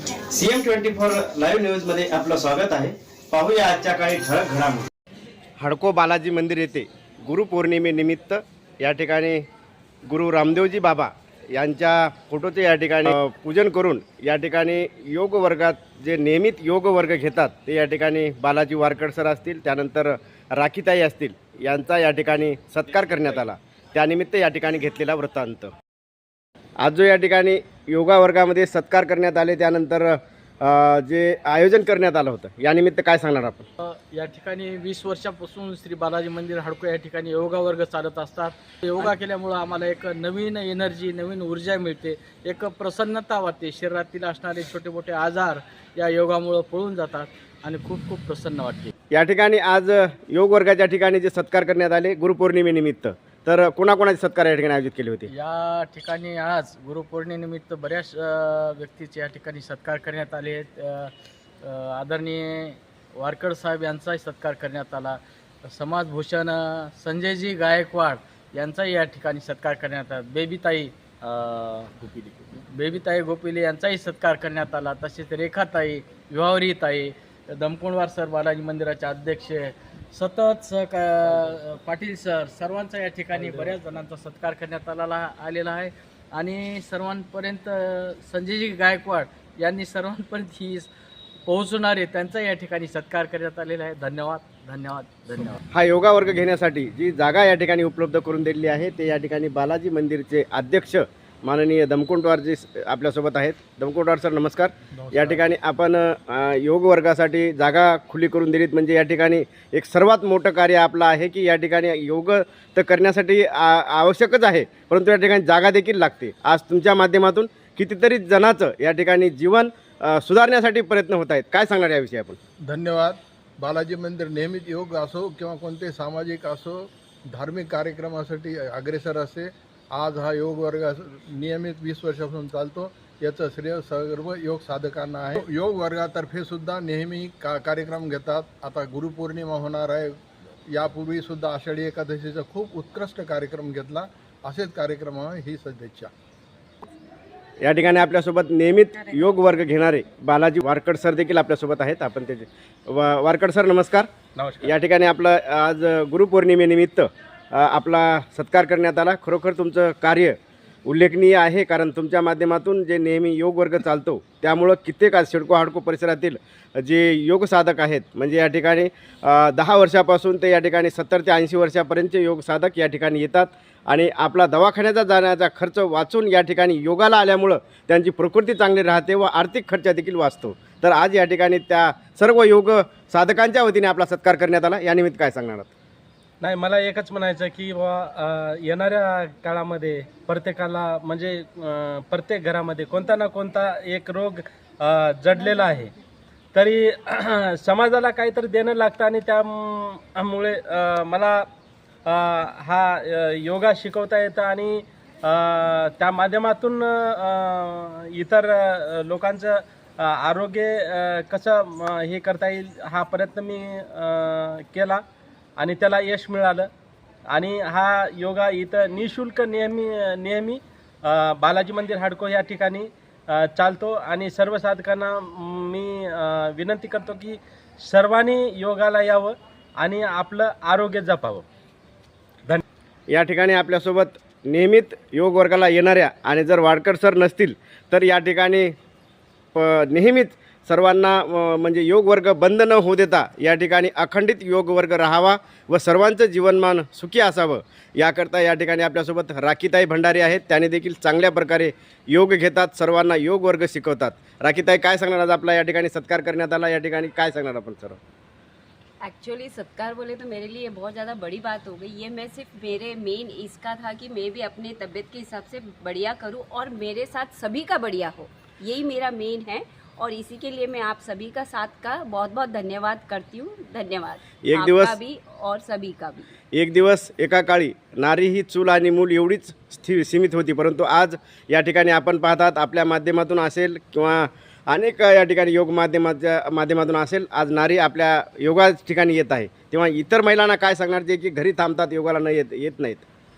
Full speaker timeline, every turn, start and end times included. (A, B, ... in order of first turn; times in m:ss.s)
0:00.3-0:02.8 A
0:03.3-0:04.7 A
0:05.6-0:09.4 A
0:10.1-0:25.7 A
0:26.8-0:33.6 A
0:33.8-0:48.9 B
0:49.1-0:55.3 A
0:55.3-1:01.1 B
1:01.6-1:30.9 B
1:23.4-1:23.8 C
1:31.5-1:35.6 B
1:35.7-2:02.4 A
1:45.0-1:45.4 D
2:02.7-2:20.2 D
2:20.7-2:26.1 D
2:27.6-2:34.1 A
2:34.4-2:34.7 C
2:34.6-3:05.7 A
3:06.4-3:15.9 C
3:16.5-3:21.5 C
3:22.0-3:35.0 C
3:35.6-3:36.7 C
3:37.3-3:51.4 C
3:53.1-3:58.7 A
3:59.5-4:18.0 A
4:19.0-4:36.3 E
4:34.4-4:35.0 A
4:36.5-4:53.0 A